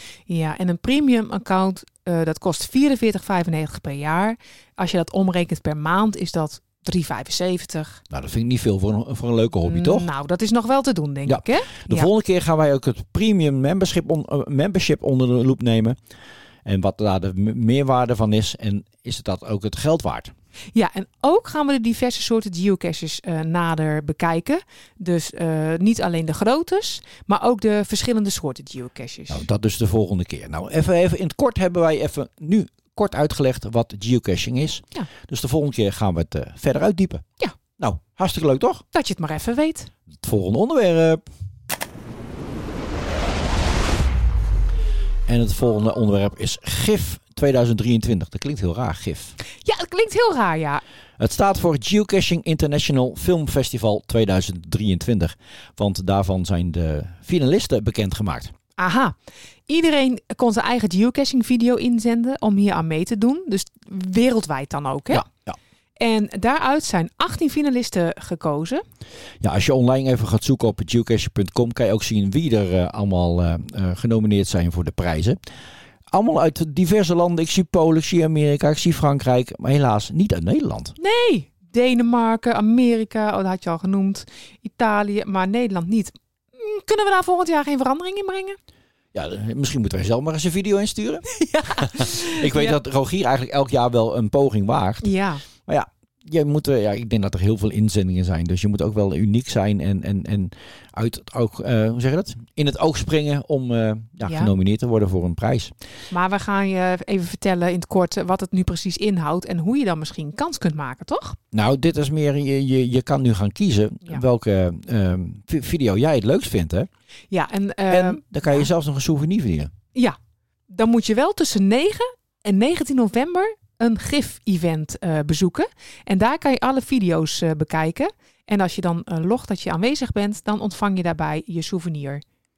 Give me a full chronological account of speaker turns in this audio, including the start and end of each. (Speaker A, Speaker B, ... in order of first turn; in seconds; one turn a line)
Speaker A: 0.3-8.0
Speaker B: 8.1-10.1
Speaker A: 9.6-12.1
Speaker B: 11.3-16.0
Speaker B: 16.6-20.3
Speaker A: 20.7-29.4
Speaker B: 29.3-37.2
Speaker B: 37.8-38.8
Speaker A: 38.9-39.9
Speaker B: 40.2-41.2
Speaker B: 45.3-49.4
Speaker A: 49.6-50.8
Speaker B: 51.2-58.5
Speaker A: 58.8-59.2
Speaker A: 59.7-65.2
Speaker B: 65.1-65.6
Speaker A: 66.0-68.8
Speaker B: 69.4-75.4
Speaker B: 76.1-80.9
Speaker A: 81.0-88.6
Speaker B: 89.1-91.2
Speaker A: 91.4-92.8
Speaker B: 91.8-95.1
Speaker A: 95.0-95.4
Speaker B: 95.7-105.7
Speaker A: 104.2-104.5
Speaker A: 106.1-111.4
Speaker B: 111.5-116.9
Speaker A: 117.3-118.7
Speaker B: 117.9-119.7
Speaker A: 120.7-132.2